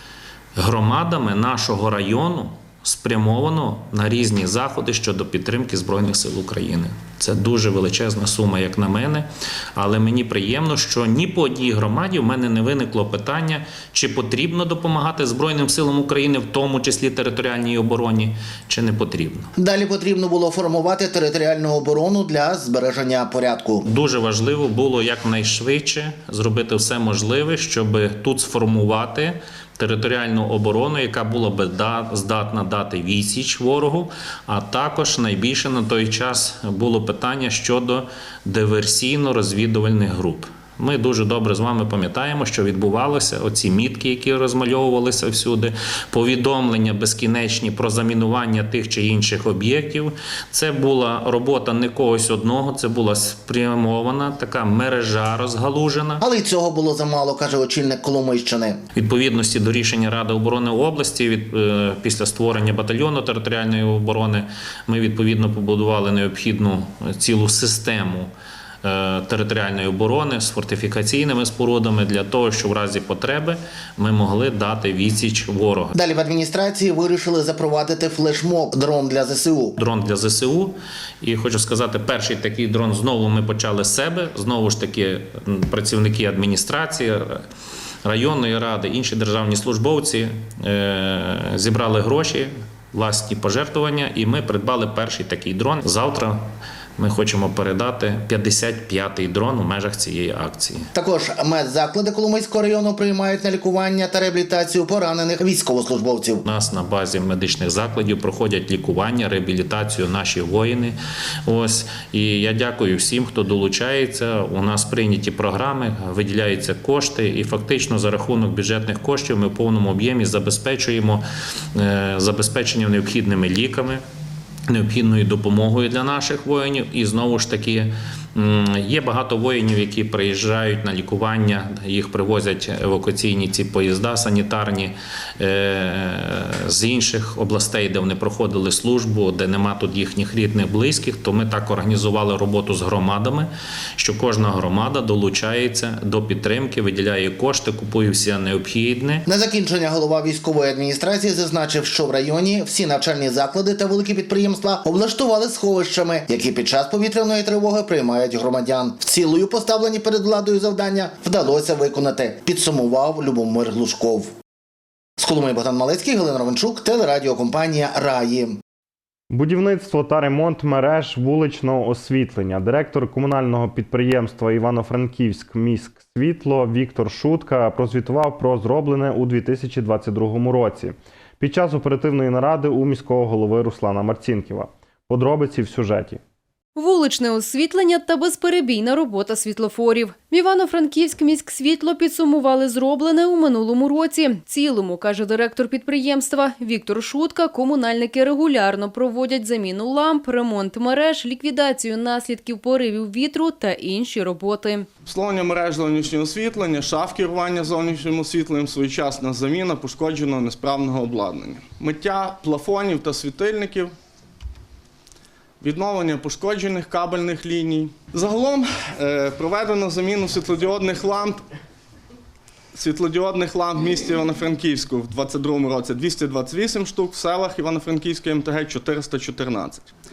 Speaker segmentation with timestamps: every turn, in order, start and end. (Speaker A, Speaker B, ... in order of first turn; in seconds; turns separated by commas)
Speaker A: 0.6-19.5, Speaker B: 19.6-23.8, Speaker A: 23.8-56.2, Speaker B: 56.2-58.8, Speaker A: 59.0-68.3, Speaker A: 68.8-76.0, Speaker B: 76.0-79.8, Speaker A: 79.8-87.5, Speaker A: 88.0-100.9, Speaker B: 100.9-106.4, Speaker A: 106.4-124.0, Speaker A: 124.7-149.2, Speaker B: 149.3-164.3, Speaker B: 165.2-168.6, Speaker C: 169.3-186.2, Speaker D: 186.8-204.9, Speaker E: 205.0-213.9, Speaker E: 215.6-221.4, Speaker E: 222.7-229.9